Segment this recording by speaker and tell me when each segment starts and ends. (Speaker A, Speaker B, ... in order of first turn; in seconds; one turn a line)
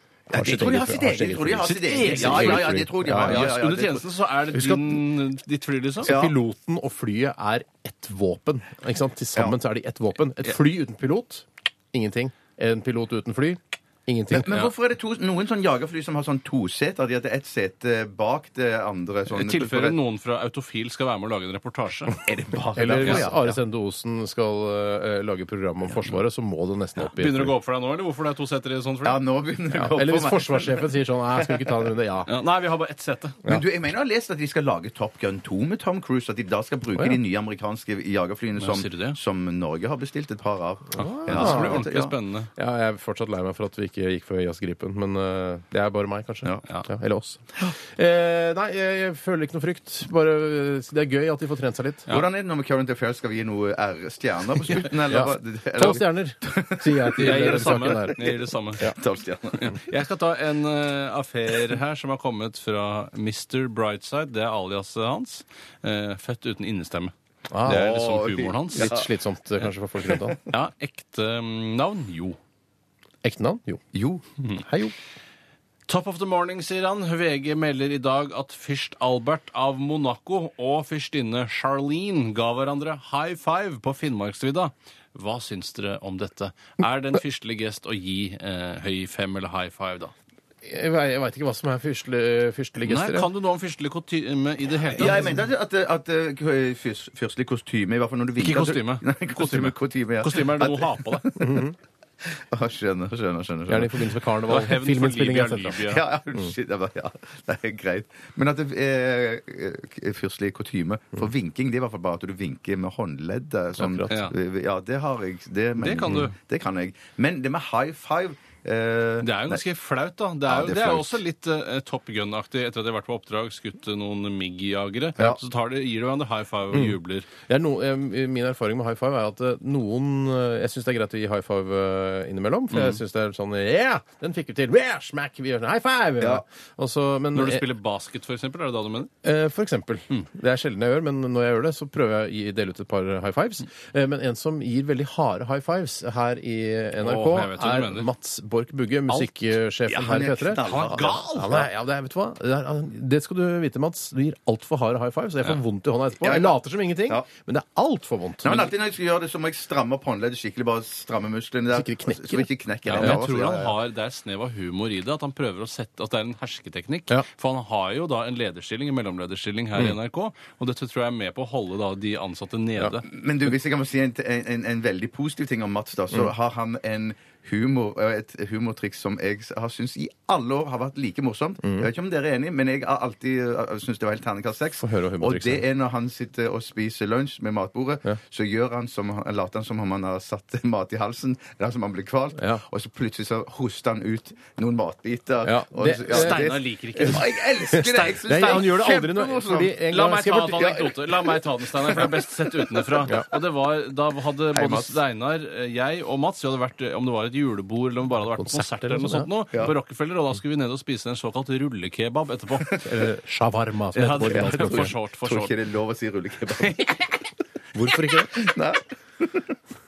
Speaker A: 0.3-3.5
Speaker B: 0.3-4.0
Speaker C: 1.6-6.1
Speaker A: 4.5-5.0
Speaker A: 6.0-14.5
Speaker B: 6.0-6.3
Speaker B: 14.4-20.0
Speaker C: 19.3-22.2
Speaker B: 22.2-23.6
Speaker A: 22.8-27.5
Speaker C: 23.0-23.3
Speaker C: 27.0-29.2
Speaker B: 29.0-31.8
Speaker A: 29.7-32.3
Speaker C: 32.3-33.4
Speaker B: 33.5-42.1
Speaker A: 36.9-37.2
Speaker C: 38.6-39.2
Speaker C: 41.0-42.5
Speaker A: 41.0-41.8
Speaker A: 42.5-52.1
Speaker B: 52.1-59.8
Speaker A: 55.1-58.2
Speaker C: 57.2-58.9
Speaker C: 59.5-67.1
Speaker A: 67.5-67.9
Speaker C: 67.6-69.0
Speaker B: 67.7-69.1
Speaker A: 68.7-70.4
Speaker C: 70.5-72.4
Speaker A: 73.2-73.8
Speaker B: 73.9-74.2
Speaker A: 74.6-74.9
Speaker C: 75.9-90.1
Speaker A: 90.6-93.3
Speaker C: 92.8-95.3
Speaker B: 95.0-101.6
Speaker C: 98.4-101.2
Speaker A: 101.4-101.7
Speaker B: 102.3-104.1
Speaker A: 103.7-106.5
Speaker C: 104.5-106.0
Speaker B: 105.9-119.6
Speaker A: 113.8-114.1
Speaker C: 114.1-114.3
Speaker C: 115.8-116.3
Speaker C: 119.2-127.3
Speaker B: 120.5-121.2
Speaker A: 126.7-137.7
Speaker C: 132.7-133.0
Speaker C: 137.3-139.1
Speaker A: 139.2-158.7
Speaker C: 147.0-148.1
Speaker B: 149.9-151.6
Speaker C: 150.6-151.6
Speaker B: 156.2-157.3
Speaker B: 158.4-163.7
Speaker A: 161.7-163.2
Speaker C: 162.9-173.1
Speaker B: 173.0-199.8
Speaker A: 181.6-181.9
Speaker A: 184.8-185.6
Speaker A: 192.4-192.6
Speaker A: 195.4-196.5
Speaker C: 196.1-198.5
Speaker A: 197.0-200.8
Speaker C: 199.9-212.7
Speaker B: 200.6-203.1
Speaker B: 204.5-205.0
Speaker A: 208.3-209.3
Speaker B: 212.6-212.9
Speaker A: 212.8-214.9
Speaker C: 213.9-215.5
Speaker B: 214.3-217.2
Speaker A: 217.7-218.4
Speaker B: 218.2-219.5